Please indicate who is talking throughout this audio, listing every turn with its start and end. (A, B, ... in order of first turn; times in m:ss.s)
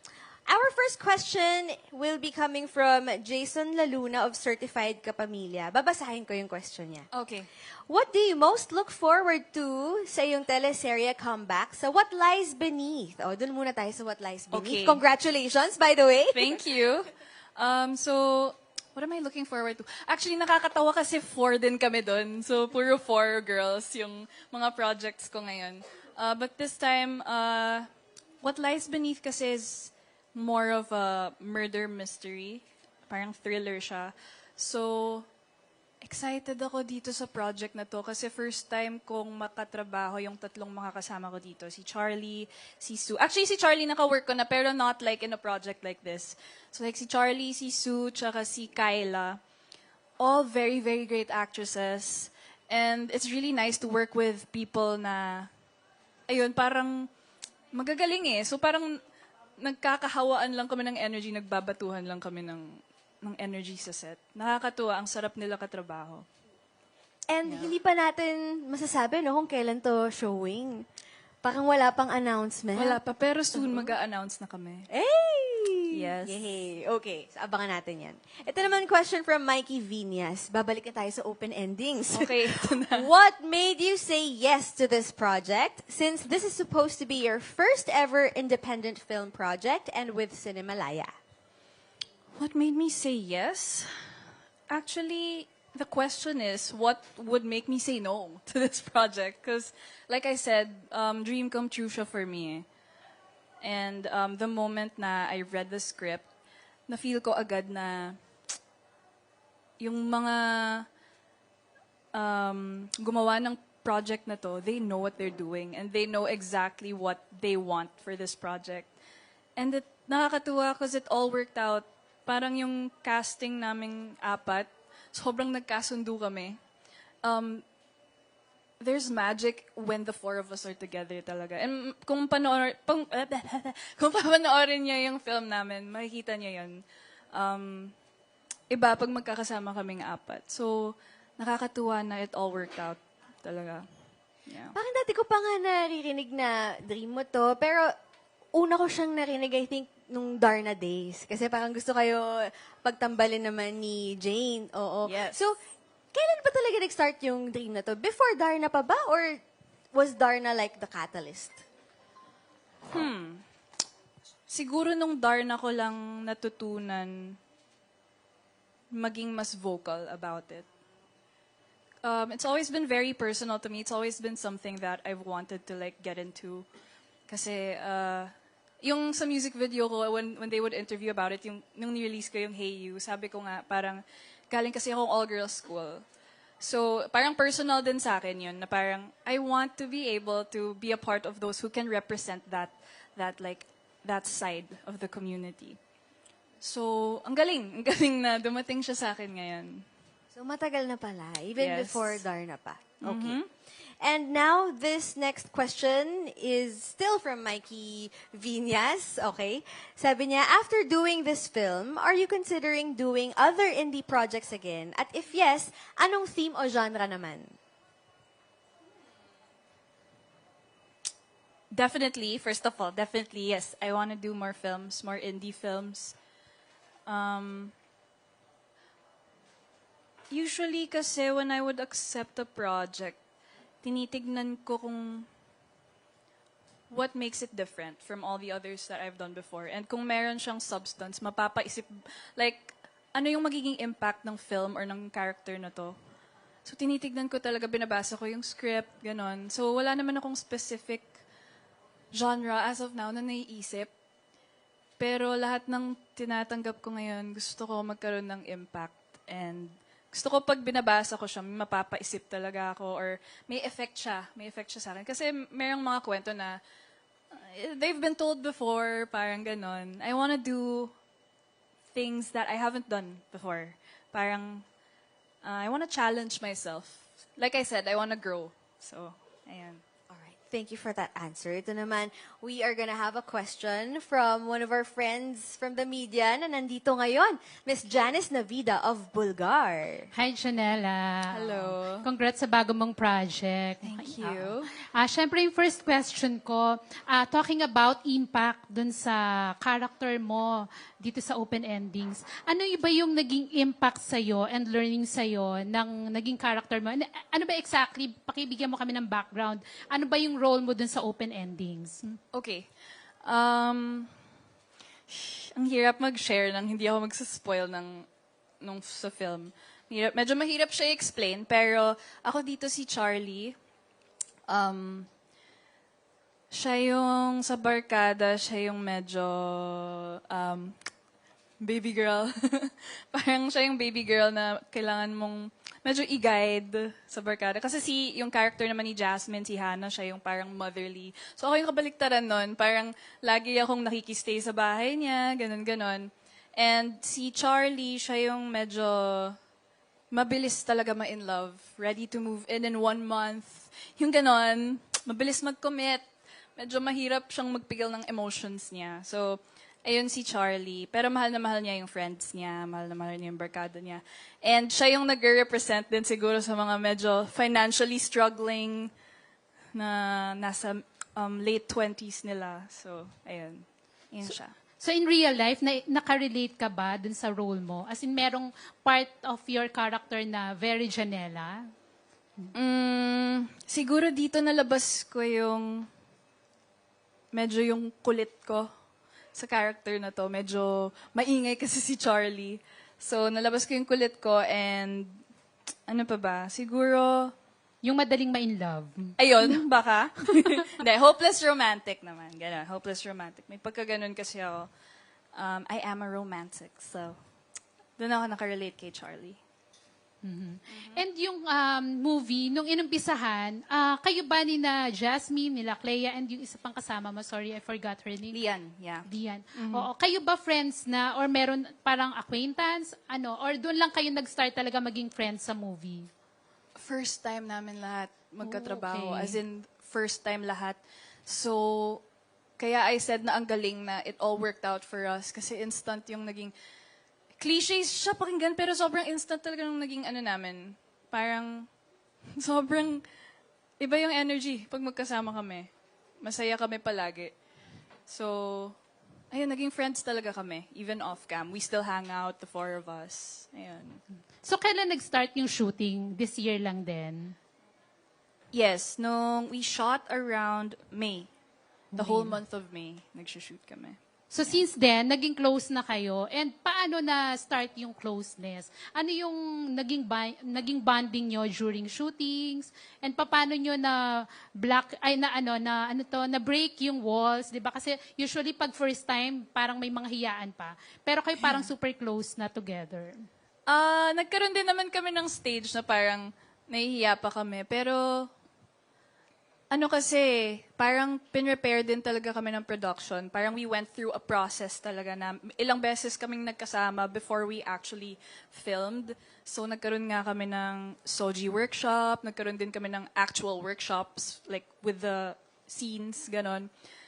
0:00.5-0:07.1 A
0:07.1-0:07.5 B
0:07.9-0:16.5 A
0:14.5-0:15.0 B
0:16.3-0:27.9 B
0:28.4-0:35.3 B
0:36.0-0:49.4 B
0:50.2-0:55.5 B
0:56.3-0:57.1 B
0:57.7-0:58.9 B
0:59.6-1:06.2 B
1:07.3-1:10.8 A
1:07.5-1:07.7 B
1:11.4-1:13.0 A
1:12.8-1:14.9 B
1:13.5-1:14.0 A
1:14.9-1:31.1 A
1:15.9-1:16.4 B
1:22.1-1:23.1 B
1:32.4-1:33.9 B
1:34.7-1:42.7 B
1:43.6-1:46.3 B
1:46.9-1:48.2 B
1:49.8-1:50.9 B
1:52.1-1:58.9 B
1:59.6-2:06.6 B
2:07.2-2:07.6 B
2:08.8-2:17.9 B
2:18.7-2:23.9 B
2:24.5-2:24.8 B
2:24.7-2:27.9 A
2:28.5-2:35.6 A
2:35.0-2:35.4 B
2:36.1-2:39.4 A
2:39.9-2:41.6 A
2:42.9-2:43.4 B
2:44.5-2:47.4 B
2:48.9-2:50.6 B
2:52.0-2:56.7 B
2:57.3-3:06.0 B
3:06.6-3:15.8 B
3:16.6-3:19.9 B
3:20.3-3:23.4 A
3:21.6-3:22.2 B
3:23.0-3:23.5 B
3:24.0-3:37.6 A
3:41.7-3:46.2 B
3:47.1-3:47.7 B
3:50.3-3:53.2 B
3:53.8-3:55.3 B
3:56.9-4:06.0 B
4:06.6-4:11.1 B
4:12.1-4:13.9 B
4:15.0-4:26.6 B
4:27.3-4:30.9 B
4:31.9-4:34.7 B
4:35.4-4:39.8 B
4:40.1-4:50.1 A
4:50.1-5:12.0 C
4:51.3-4:52.1 B
4:53.8-4:54.7 B
5:12.0-5:12.7 B
5:13.2-5:14.1 B
5:15.1-5:18.1 B
5:18.6-5:23.6 B
5:24.5-5:25.1 B
5:26.5-5:30.8 B
5:31.6-5:49.4 B
5:50.1-5:56.0 B
5:56.6-6:08.9 B
6:09.7-6:14.5 B
6:14.8-6:21.6 C
6:22.5-6:25.9 B
6:27.3-6:28.7 B
6:29.4-6:35.2 B
6:35.9-6:37.3 B
6:37.8-6:39.1 C
6:39.2-6:44.7 B
6:45.4-6:47.2 B
6:48.0-6:49.4 B
6:50.2-6:58.3 C
6:50.7-6:51.0 B
6:58.3-6:59.9 B
6:59.1-7:06.1 C
7:06.8-7:12.0 B
7:08.4-7:09.3 C
7:12.6-7:16.5 B
7:17.4-7:21.7 B
7:22.4-7:23.0 B
7:23.8-7:25.7 B
7:26.2-7:27.3 B
7:28.1-7:28.8 B
7:29.3-7:34.0 B
7:34.4-7:37.4 C
7:38.5-7:41.3 B
7:42.0-7:44.7 B
7:42.0-7:42.4 C
7:44.4-8:03.2 C
8:01.3-8:01.7 B
8:03.7-8:08.3 B
8:09.7-8:26.7 B